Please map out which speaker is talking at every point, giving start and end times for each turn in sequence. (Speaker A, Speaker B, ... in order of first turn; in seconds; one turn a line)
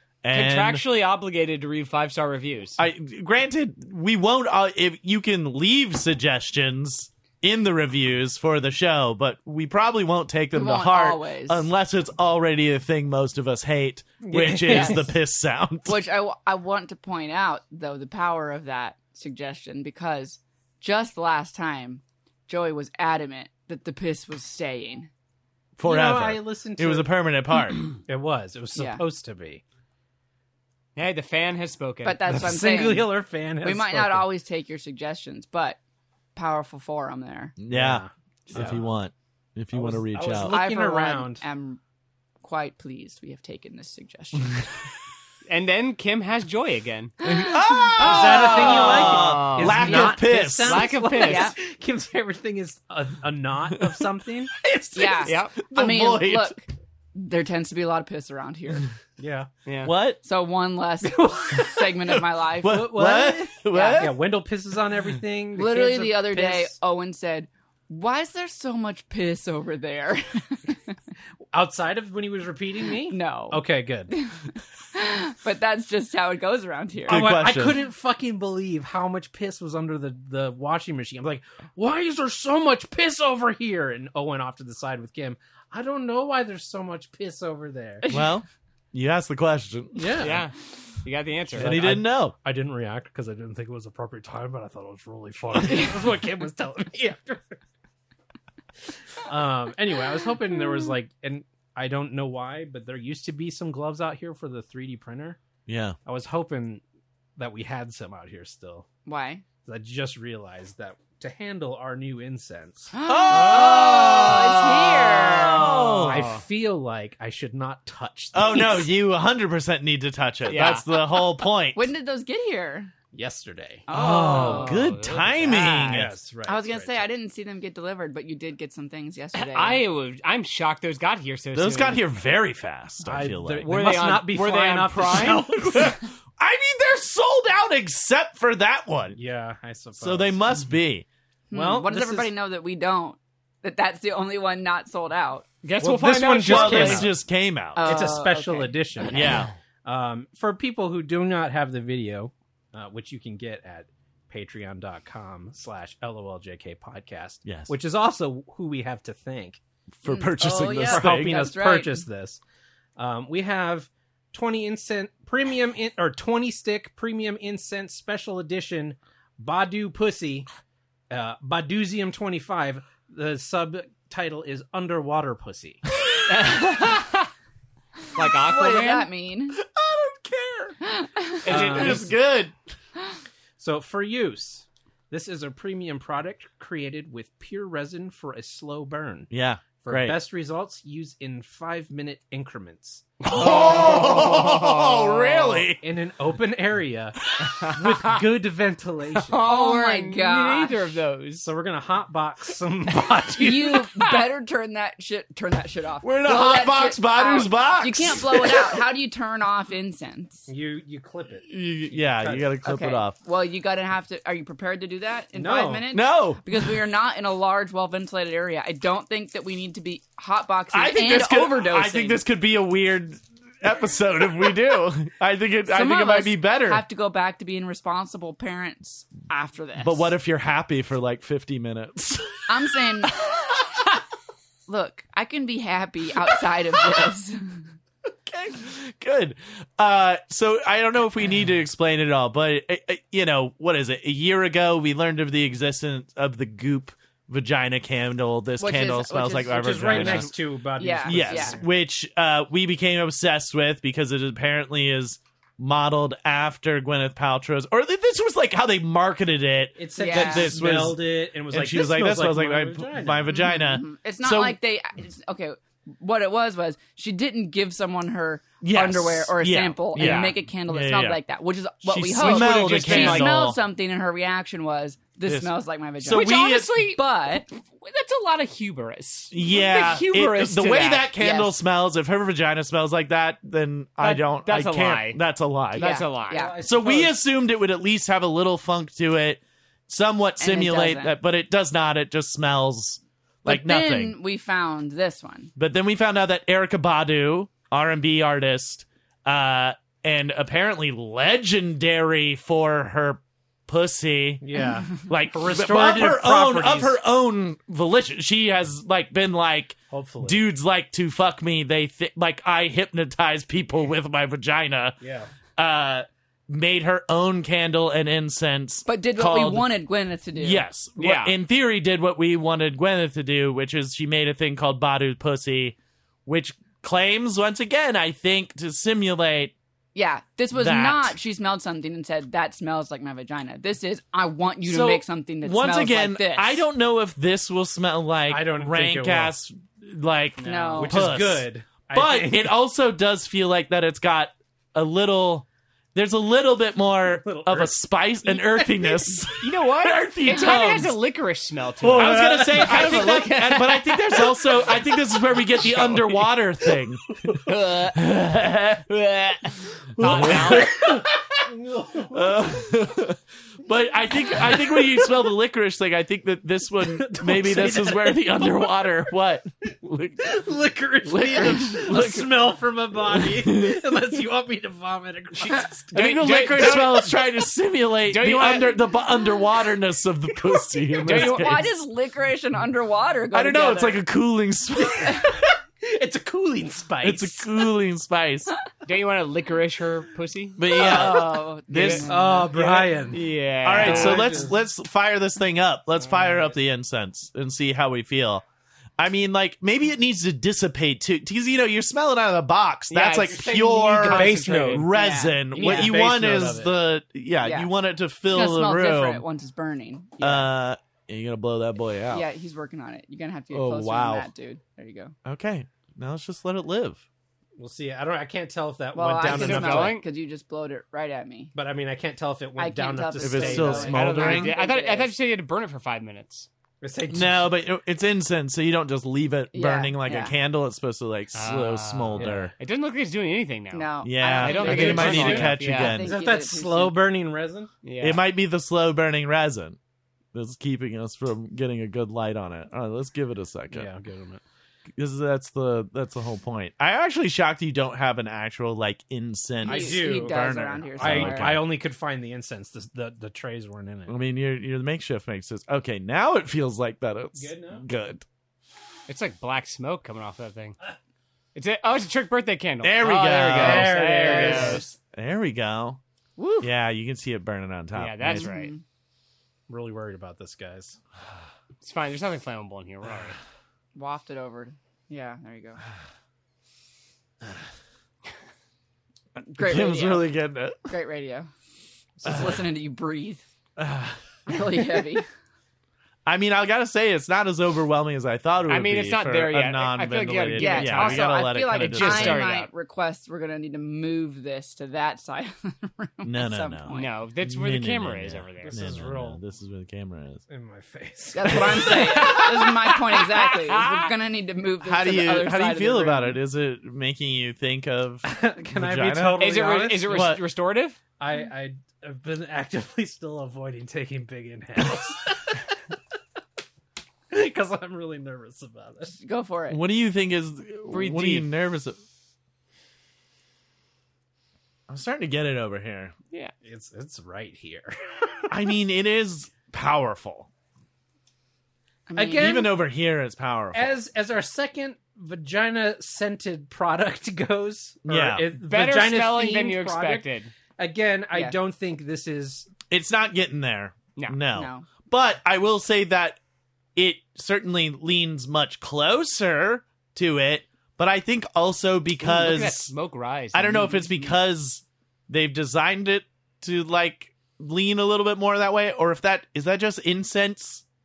Speaker A: 0.2-0.8
Speaker B: 0.3-2.8
Speaker A: 2.8-16.0
Speaker C: 10.5-11.7
Speaker D: 14.2-15.1
Speaker C: 14.7-15.0
Speaker C: 15.9-25.1
Speaker A: 25.8-27.8
Speaker D: 25.9-27.1
Speaker D: 28.1-29.6
Speaker C: 28.8-29.0
Speaker B: 31.0-32.2
Speaker C: 32.0-35.8
Speaker D: 32.2-34.3
Speaker C: 36.4-37.5
Speaker A: 37.6-40.5
Speaker D: 37.7-38.8
Speaker C: 38.5-38.8
Speaker D: 39.7-41.5
Speaker C: 40.4-41.8
Speaker C: 42.4-44.7
Speaker B: 45.5-47.1
Speaker C: 47.2-47.9
Speaker A: 47.2-50.9
Speaker B: 48.0-51.5
Speaker D: 48.0-55.3
Speaker C: 51.2-51.5
Speaker A: 54.9-56.6
Speaker C: 54.9-58.9
Speaker B: 55.3-55.5
Speaker D: 59.2-59.5
Speaker B: 59.7-59.9
Speaker A: 59.8-60.2
Speaker C: 60.2-62.9
Speaker D: 61.0-61.9
Speaker A: 62.3-64.2
Speaker D: 62.6-66.8
Speaker C: 63.7-64.1
Speaker C: 65.6-70.8
Speaker D: 71.5-74.1
Speaker C: 73.1-77.3
Speaker A: 77.1-77.8
Speaker D: 77.1-88.1
Speaker C: 88.0-88.3
Speaker A: 88.1-90.4
Speaker D: 90.0-90.4
Speaker B: 90.2-91.8
Speaker D: 91.5-97.6
Speaker A: 91.6-92.4
Speaker D: 99.2-105.4
Speaker A: 105.7-106.0
Speaker D: 106.0-106.8
Speaker D: 107.4-108.9
Speaker C: 109.1-109.4
Speaker D: 109.7-112.9
Speaker C: 112.9-115.7
Speaker A: 113.0-116.3
Speaker B: 115.3-116.4
Speaker D: 116.0-118.9
Speaker A: 118.3-121.8
Speaker B: 120.5-120.9
Speaker C: 121.7-122.9
Speaker D: 123.1-123.9
Speaker C: 123.9-124.8
Speaker A: 123.9-126.2
Speaker B: 124.2-125.8
Speaker C: 125.5-125.9
Speaker D: 125.5-127.0
Speaker C: 126.5-129.8
Speaker B: 129.3-132.0
Speaker A: 131.6-133.7
Speaker D: 133.1-136.0
Speaker B: 133.7-135.5
Speaker A: 135.6-139.2
Speaker D: 139.1-140.4
Speaker A: 140.0-141.1
Speaker C: 141.5-145.5
Speaker D: 141.5-142.3
Speaker B: 145.6-147.1
Speaker D: 145.8-147.1
Speaker A: 146.4-148.1
Speaker C: 147.8-149.4
Speaker D: 147.8-159.6
Speaker A: 149.1-149.5
Speaker A: 157.5-157.7
Speaker A: 160.0-161.5
Speaker C: 160.1-162.1
Speaker D: 160.4-162.4
Speaker D: 163.0-170.5
Speaker D: 171.1-175.8
Speaker B: 176.2-177.3
Speaker B: 178.1-179.1
Speaker C: 178.4-179.6
Speaker A: 179.6-180.8
Speaker C: 180.8-181.4
Speaker A: 181.4-182.5
Speaker B: 181.5-182.1
Speaker D: 181.5-182.1
Speaker D: 183.6-194.3
Speaker A: 189.3-190.2
Speaker A: 193.3-195.8
Speaker B: 193.3-195.7
Speaker D: 195.8-199.4
Speaker B: 197.6-198.1
Speaker B: 199.3-201.5
Speaker C: 199.4-200.8
Speaker D: 201.4-203.9
Speaker C: 203.4-210.5
Speaker A: 206.0-208.8
Speaker D: 210.5-212.5
Speaker A: 211.5-213.2
Speaker C: 212.7-222.2
Speaker D: 215.3-215.9
Speaker A: 215.9-216.7
Speaker A: 220.7-226.8
Speaker C: 225.7-230.1
Speaker A: 229.8-232.6
Speaker C: 232.5-233.2
Speaker C: 234.7-237.6
Speaker A: 238.2-250.3
Speaker C: 248.6-251.6
Speaker D: 249.5-251.7
Speaker A: 251.1-264.6
Speaker D: 259.8-263.4
Speaker C: 260.0-260.5
Speaker C: 263.3-277.5
Speaker A: 268.6-271.2
Speaker B: 270.0-270.4
Speaker A: 271.9-273.6
Speaker B: 272.2-273.3
Speaker A: 275.3-276.8
Speaker B: 276.1-277.0
Speaker B: 277.5-281.1
Speaker A: 279.3-286.0
Speaker C: 281.2-281.6
Speaker B: 284.0-285.2
Speaker B: 285.7-286.6
Speaker C: 285.8-286.5
Speaker D: 286.3-287.2
Speaker A: 286.6-294.1
Speaker C: 290.4-291.2
Speaker C: 293.4-295.5
Speaker A: 295.6-315.0
Speaker D: 304.4-307.0
Speaker D: 309.9-310.4
Speaker D: 315.0-315.3
Speaker A: 315.6-319.7
Speaker C: 318.9-320.6
Speaker A: 320.4-329.5
Speaker B: 321.0-321.3
Speaker C: 329.9-336.6
Speaker A: 330.5-331.1
Speaker A: 334.6-350.9
Speaker D: 338.3-339.3
Speaker B: 340.4-340.9
Speaker C: 340.4-340.9
Speaker D: 340.8-342.5
Speaker D: 347.2-349.3
Speaker B: 349.4-354.8
Speaker C: 350.3-350.7
Speaker D: 350.4-350.9
Speaker D: 351.8-352.7
Speaker A: 351.8-357.4
Speaker B: 355.6-356.2
Speaker B: 357.4-358.1
Speaker A: 357.9-358.9
Speaker B: 358.9-360.8
Speaker A: 360.0-361.1
Speaker D: 360.2-362.6
Speaker A: 362.1-370.4
Speaker D: 364.3-365.1
Speaker D: 366.8-368.8
Speaker D: 370.2-375.9
Speaker A: 371.1-372.4
Speaker A: 373.1-373.8
Speaker A: 375.5-381.7
Speaker B: 375.9-377.4
Speaker B: 378.1-378.8
Speaker B: 381.0-381.7
Speaker C: 381.1-384.0
Speaker A: 383.3-385.4
Speaker D: 384.8-387.5
Speaker A: 387.0-388.5
Speaker B: 388.9-391.2
Speaker A: 390.6-392.8
Speaker C: 390.7-392.5
Speaker B: 391.8-394.5
Speaker D: 392.1-393.2
Speaker A: 393.6-398.4
Speaker D: 393.8-394.6
Speaker D: 396.0-396.6
Speaker A: 399.0-409.2
Speaker B: 402.9-404.9
Speaker D: 403.2-404.9
Speaker C: 404.9-405.6
Speaker D: 405.5-406.7
Speaker B: 405.6-405.9
Speaker C: 407.4-407.7
Speaker C: 408.3-410.5
Speaker A: 410.2-412.3
Speaker C: 412.1-415.1
Speaker A: 413.5-414.3
Speaker A: 415.2-417.0
Speaker D: 417.6-420.0
Speaker C: 418.9-421.5
Speaker B: 419.2-420.1
Speaker D: 421.6-424.1
Speaker C: 422.6-425.1
Speaker A: 423.2-424.6
Speaker B: 423.9-426.5
Speaker D: 426.8-427.5
Speaker A: 427.1-432.5
Speaker C: 429.5-430.3
Speaker B: 431.3-436.0
Speaker D: 432.2-432.5
Speaker C: 433.7-437.0
Speaker A: 434.0-436.2
Speaker D: 434.5-437.7
Speaker B: 437.8-438.2
Speaker A: 438.0-439.8
Speaker A: 440.3-443.9
Speaker D: 443.7-444.4
Speaker A: 445.0-451.7
Speaker C: 449.6-451.5
Speaker D: 449.7-450.4
Speaker D: 451.0-454.1
Speaker A: 454.1-458.2
Speaker D: 457.4-457.9
Speaker B: 459.1-460.8
Speaker B: 461.6-464.9
Speaker A: 462.8-466.0
Speaker D: 463.5-464.9
Speaker C: 466.4-466.7
Speaker A: 466.6-468.5
Speaker B: 467.9-468.7
Speaker C: 468.3-468.8
Speaker D: 469.7-471.0
Speaker B: 471.8-473.4
Speaker C: 473.9-475.8
Speaker C: 479.4-480.3
Speaker A: 479.6-480.9
Speaker C: 480.9-481.5
Speaker C: 482.2-483.4
Speaker A: 482.2-482.6
Speaker A: 483.8-484.6
Speaker C: 484.5-485.3
Speaker A: 486.3-492.5
Speaker B: 488.7-492.7
Speaker C: 490.6-497.1
Speaker A: 496.2-500.4
Speaker B: 496.9-498.8
Speaker D: 498.6-499.4
Speaker D: 500.5-502.5
Speaker C: 501.3-506.4
Speaker B: 502.1-504.1
Speaker A: 504.8-510.4
Speaker D: 508.2-510.4
Speaker B: 509.4-511.0
Speaker D: 511.2-515.6
Speaker D: 517.3-519.2
Speaker C: 519.2-519.8
Speaker A: 519.7-522.0
Speaker B: 520.9-521.5
Speaker A: 524.9-526.1
Speaker D: 526.6-528.5
Speaker A: 528.5-530.5
Speaker C: 532.1-532.6
Speaker D: 532.2-532.8
Speaker A: 532.4-534.0
Speaker D: 533.7-542.7
Speaker A: 538.0-538.5
Speaker B: 538.5-540.5
Speaker A: 542.9-546.4
Speaker C: 544.5-544.9
Speaker A: 547.0-552.9
Speaker B: 552.2-554.0
Speaker A: 553.5-560.8